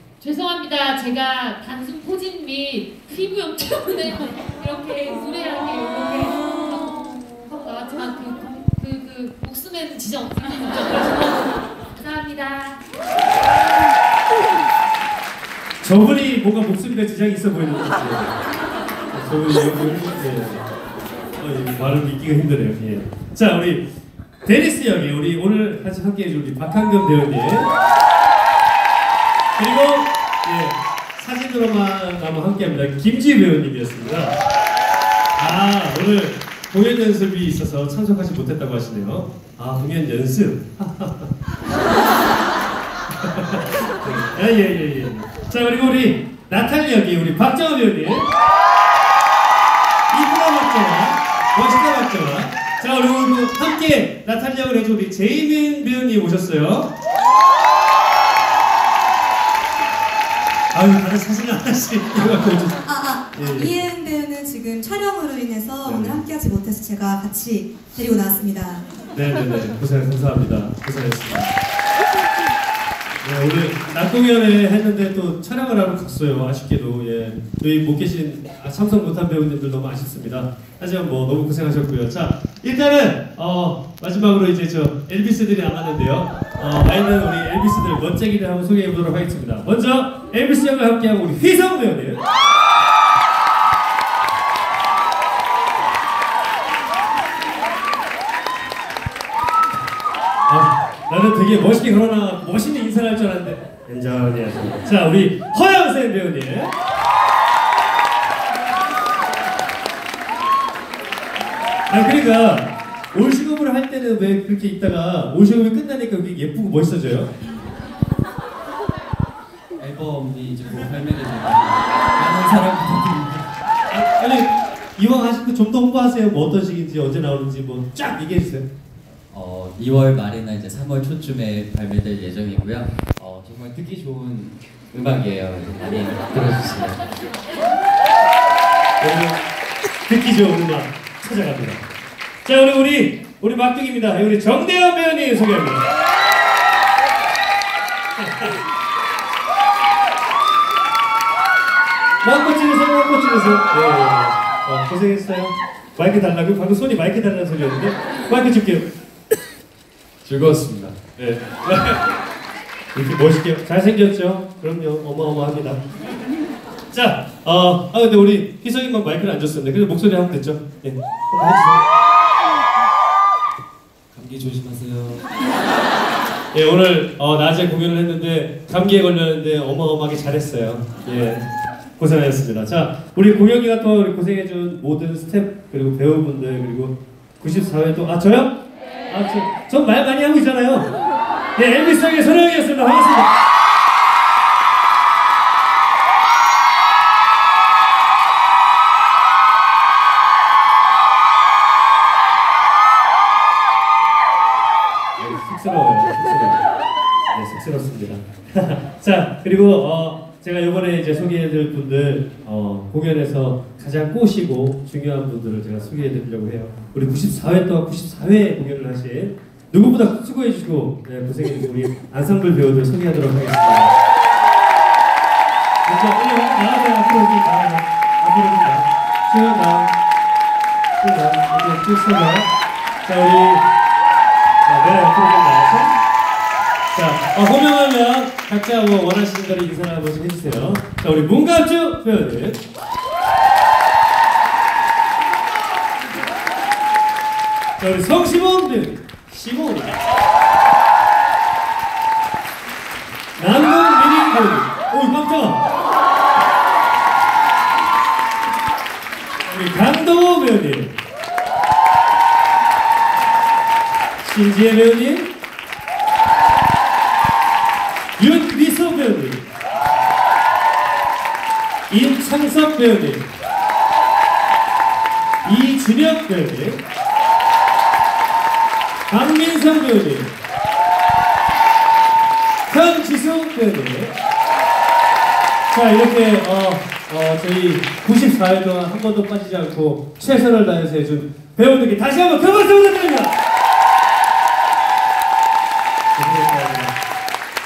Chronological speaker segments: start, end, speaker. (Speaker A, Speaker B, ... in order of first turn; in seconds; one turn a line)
Speaker A: 0.2-12.8
Speaker B: 15.8-18.4
Speaker B: 19.1-20.6
Speaker B: 21.4-23.9
Speaker B: 24.4-27.7
Speaker B: 29.6-34.4
Speaker B: 35.4-41.3
Speaker B: 43.2-48.3
Speaker B: 50.1-56.9
Speaker B: 60.7-62.8
Speaker C: 62.9-68.9
Speaker B: 63.3-63.8
Speaker B: 65.8-66.2
Speaker B: 69.1-71.5
Speaker B: 73.2-92.2
Speaker B: 100.5-106.7
Speaker B: 111.9-117.3
Speaker D: 119.8-123.5
Speaker B: 123.9-128.7
Speaker D: 129.3-137.2
Speaker B: 139.0-139.4
Speaker B: 140.1-141.8
Speaker B: 142.4-145.9
Speaker B: 148.2-148.6
Speaker B: 152.2-158.9
Speaker D: 160.2-160.9
Speaker B: 160.7-162.1
Speaker B: 162.9-165.8
Speaker B: 166.9-171.8
Speaker D: 174.1-175.2
Speaker B: 176.5-181.4
Speaker B: 182.0-188.5
Speaker B: 189.1-190.9
Speaker B: 191.6-193.3
Speaker B: 205.2-206.6
Speaker B: 207.3-223.9
Speaker B: 225.8-229.9
Speaker B: 231.0-232.5
Speaker B: 233.0-233.6
Speaker B: 234.6-235.9
Speaker B: 236.9-242.6
Speaker B: 247.8-250.0
Speaker B: 253.3-255.6
Speaker B: 259.4-260.9
Speaker B: 264.2-265.3
Speaker B: 268.2-269.4
Speaker B: 271.9-273.3
Speaker B: 275.4-276.8
Speaker B: 279.1-280.3
Speaker B: 282.7-284.1
Speaker B: 285.7-293.3
Speaker B: 296.1-296.9